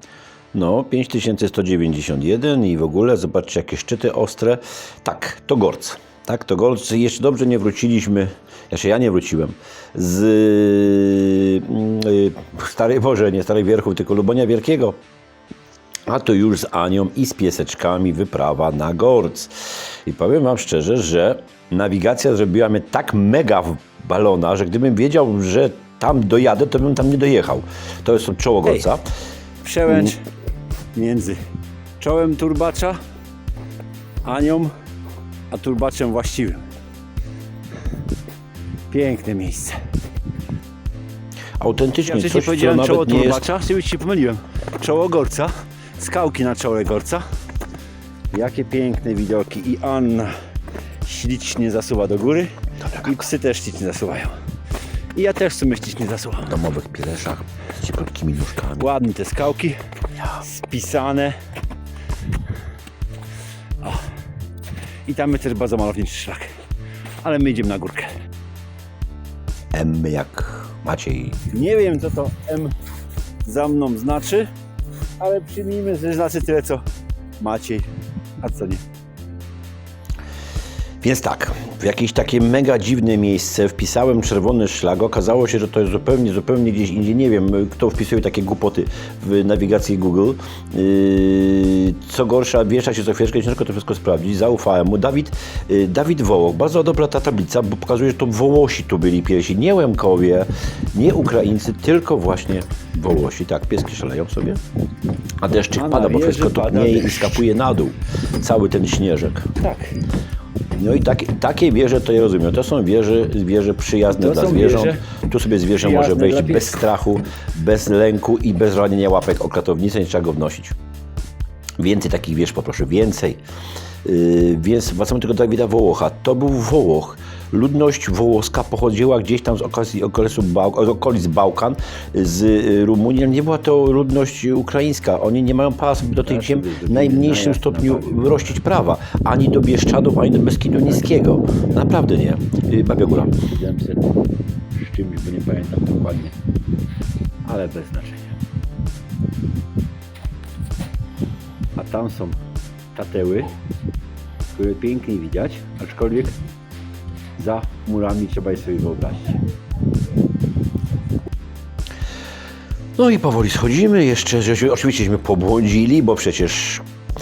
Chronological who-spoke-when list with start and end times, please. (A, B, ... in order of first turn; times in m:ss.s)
0:00.5-0:15.0 A
0:16.1-0:29.0 A
0:29.6-0:30.2 B
0:29.9-0:30.1 A
0:30.9-0:31.4 B
0:32.0-0:33.0 B
0:34.2-0:34.7 B
0:35.5-0:36.6 B
0:38.9-0:39.8 B
0:41.6-0:43.5 A
0:42.0-0:47.2 B
0:48.3-0:50.3 B
0:51.0-0:54.4 B
0:52.8-0:53.2 A
0:55.1-0:56.6 B
0:56.4-0:58.9 A
0:58.8-0:59.8 B
1:00.4-1:01.4 B
1:03.8-1:04.1 B
1:05.0-1:06.5 B
1:07.2-1:08.1 B
1:09.7-1:11.5 A
1:11.5-1:12.7 B
1:13.4-1:14.5 B
1:15.2-1:16.8 B
1:17.4-1:17.9 B
1:18.4-1:18.8 B
1:21.0-1:44.6 A
1:45.4-1:49.6 A
1:45.7-1:47.5 B
1:49.6-1:50.0 B
1:50.7-2:00.7 A
1:54.1-1:55.0 B
1:55.7-1:56.8 B
2:01.8-2:03.4 A
2:04.0-2:23.4 A
2:16.2-2:18.6 B
2:23.4-2:24.2 B
2:24.7-2:26.4 B
2:27.4-2:28.3 B
2:31.8-2:32.4 B
2:32.9-2:33.5 B
2:34.5-2:36.4 B
2:37.4-2:39.4 B
2:43.0-2:46.8 A